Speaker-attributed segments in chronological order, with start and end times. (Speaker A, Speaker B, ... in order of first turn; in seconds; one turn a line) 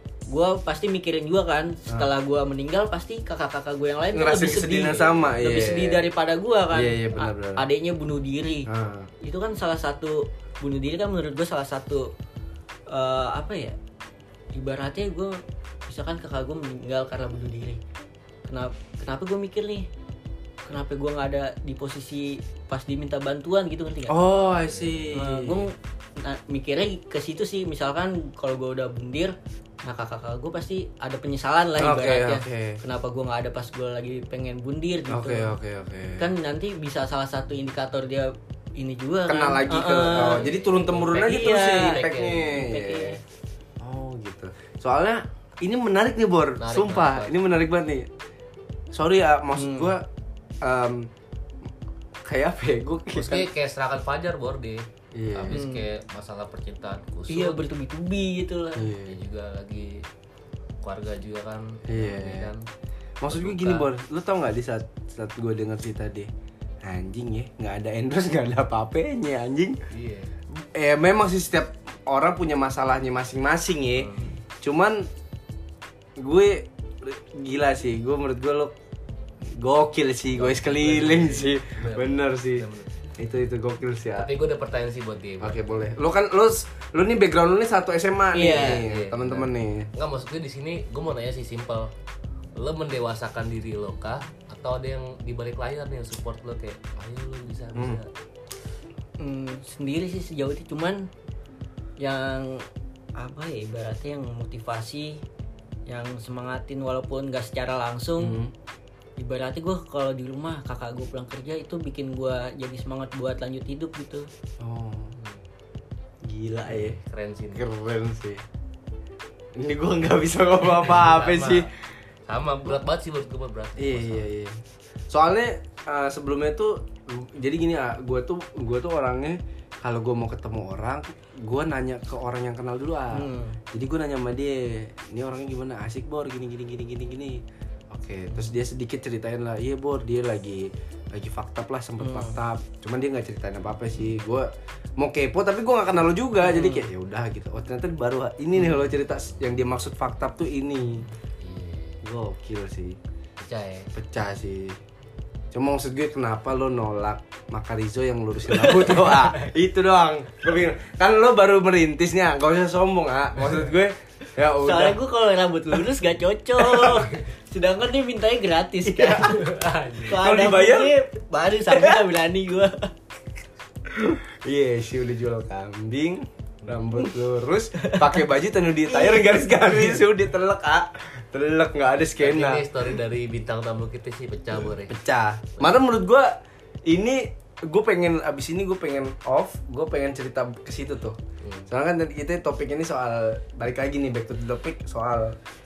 Speaker A: 0.3-8.7
Speaker B: 4.1-6.0
Speaker B: 6.7-7.6
Speaker B: 8.7-9.1
Speaker A: 9.2-12.1
Speaker A: 12.9-13.8
Speaker A: 14.5-17.8
Speaker A: 18.5-19.9
Speaker A: 20.6-24.2
Speaker B: 24.1-25.7
Speaker A: 25.1-35.5
Speaker B: 31.8-32.8
Speaker B: 35.1-36.3
Speaker A: 36.2-40.5
Speaker B: 39.3-43.2
Speaker C: 40.2-42.6
Speaker A: 41.1-42.0
Speaker A: 42.5-43.2
Speaker B: 43.8-48.1
Speaker C: 46.6-47.3
Speaker B: 48.9-50.0
Speaker A: 49.5-49.9
Speaker B: 50.6-51.1
Speaker B: 52.2-53.5
Speaker C: 53.1-57.6
Speaker B: 55.1-55.6
Speaker A: 55.5-55.8
Speaker A: 57.3-58.9
Speaker B: 58.8-59.2
Speaker C: 59.0-60.0
Speaker C: 60.8-62.6
Speaker B: 61.9-62.5
Speaker B: 63.2-66.3
Speaker C: 63.3-63.9
Speaker B: 66.8-69.8
Speaker C: 69.9-70.3
Speaker B: 70.6-75.1
Speaker C: 74.0-74.3
Speaker B: 76.2-78.7
Speaker B: 79.4-82.7
Speaker C: 80.3-82.9
Speaker B: 83.2-84.3
Speaker C: 84.2-85.6
Speaker B: 85.4-89.9
Speaker A: 88.3-88.8
Speaker C: 88.4-91.9
Speaker C: 92.6-98.1
Speaker B: 97.7-98.0
Speaker A: 99.2-101.0
Speaker A: 102.0-102.6
Speaker A: 103.2-105.2
Speaker A: 105.9-108.4
Speaker B: 108.2-108.5
Speaker A: 109.2-114.3
Speaker B: 114.6-115.1
Speaker B: 116.2-117.0
Speaker C: 116.6-117.7
Speaker B: 117.5-118.4
Speaker B: 119.5-121.7
Speaker C: 120.8-121.7
Speaker C: 122.3-124.3
Speaker B: 123.8-151.0
Speaker A: 133.1-133.6
Speaker A: 142.0-142.4
Speaker A: 146.4-146.9
Speaker C: 151.4-152.0
Speaker B: 152.0-153.0
Speaker C: 153.4-153.9
Speaker B: 153.9-154.8
Speaker B: 155.5-165.0
Speaker A: 158.5-159.1
Speaker A: 164.6-172.9
Speaker B: 166.6-167.1
Speaker B: 168.8-169.4
Speaker C: 169.2-170.2
Speaker B: 170.1-170.9
Speaker B: 171.7-172.0
Speaker B: 173.9-182.8
Speaker A: 177.8-178.2
Speaker A: 178.9-180.0
Speaker C: 182.2-185.0
Speaker B: 184.9-191.2
Speaker C: 191.4-191.7
Speaker B: 191.7-195.4